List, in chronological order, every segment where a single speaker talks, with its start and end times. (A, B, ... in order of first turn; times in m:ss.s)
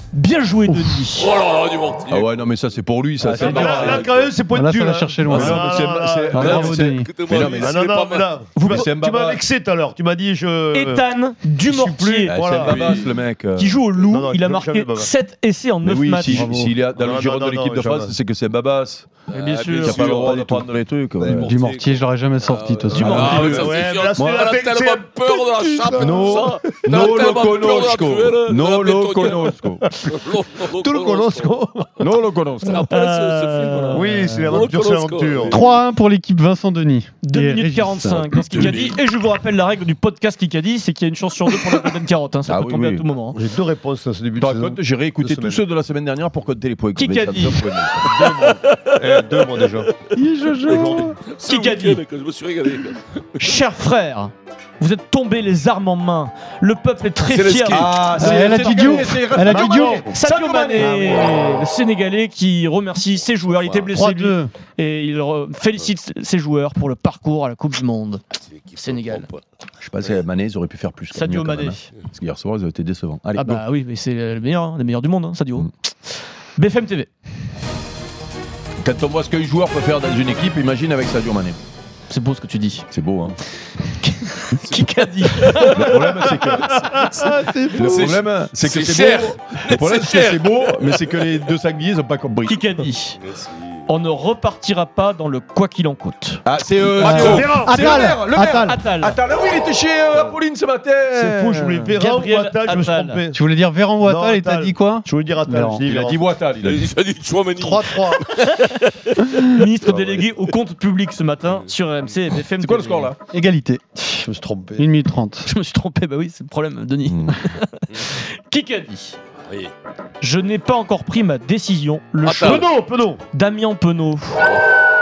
0:00.1-0:01.3 A
0:00.7-0:01.0 B
0:01.2-0:02.5 C
0:02.1-0:04.1 D
0:03.2-0:07.5 B
0:03.3-0:06.7 E
0:03.4-0:04.4 C
0:05.2-0:07.8 D
0:05.3-0:05.6 C
0:06.4-0:08.3 C
0:07.4-0:11.0 E
0:08.6-0:08.9 A
0:08.6-0:09.4 D
0:10.7-0:12.7 A
0:11.7-0:13.1 E
0:12.2-0:13.8 D
0:13.6-0:16.6 A
0:14.1-0:15.1 E
0:15.8-0:19.1 D
0:16.3-0:16.8 B
0:16.9-0:18.1 E
0:19.3-0:20.4 C
0:19.3-0:20.2 A
0:19.8-0:21.6 D
0:20.0-0:20.4 E
0:21.2-0:21.5 E
0:21.3-0:29.5 C
0:21.3-0:23.8 B
0:22.9-0:26.8 E
0:23.0-0:23.7 D
0:26.0-0:29.9 D
0:30.0-0:31.6 C
0:30.8-0:31.8 E
0:32.0-0:32.8 D
0:32.6-0:35.6 C
0:32.9-0:34.1 A
0:33.9-0:35.7 E
0:35.5-0:38.3 B
0:37.2-0:43.4 A
0:38.4-0:39.0 C
0:42.5-0:43.0 D
0:43.3-0:45.6 E
0:44.4-0:48.1 D
0:47.0-0:47.6 A
0:48.0-0:50.0 E
0:48.3-0:48.6 C
0:50.1-0:51.2 B
0:50.7-0:53.0 C
0:50.7-0:51.2 E
0:51.5-0:52.0 A
0:53.4-1:08.2 A
0:57.3-0:58.3 C
0:57.7-1:01.3 D
0:58.2-1:00.0 B
0:59.5-1:00.1 E
1:03.5-1:03.9 C
1:03.9-1:04.5 B
1:08.5-1:09.4 C
1:08.8-1:09.3 A
1:09.8-1:13.6 D
1:11.1-1:11.9 A
1:13.4-1:17.1 A
1:18.8-1:21.6 D
1:22.1-1:22.9 A
1:22.9-1:23.4 D
1:24.0-1:26.1 A
1:24.7-1:26.8 C
1:25.7-1:27.0 D
1:27.1-1:28.1 E
1:27.7-1:32.6 D
1:27.8-1:31.3 C
1:32.4-1:33.2 A
1:33.2-1:33.8 C
1:33.9-1:36.4 A
1:36.4-1:41.9 D
1:37.0-1:38.8 B
1:37.2-1:37.8 E
1:37.2-1:39.2 A
1:41.1-1:43.4 E
1:42.0-1:43.2 A
1:43.3-1:45.8 B
1:44.0-1:46.3 E
1:45.9-1:46.9 D
1:46.6-1:49.4 C
1:47.6-1:48.2 B
1:49.5-1:53.1 A
1:49.8-1:50.2 E
1:52.6-1:53.2 D
1:53.3-1:53.8 B
1:54.1-1:54.9 E
1:54.8-1:55.5 B
1:55.4-1:59.2 A
1:59.5-1:59.7 C
2:00.2-2:02.8 A
2:02.2-2:02.7 C
2:02.5-2:03.2 E
2:03.3-2:04.4 A
2:04.4-2:04.7 C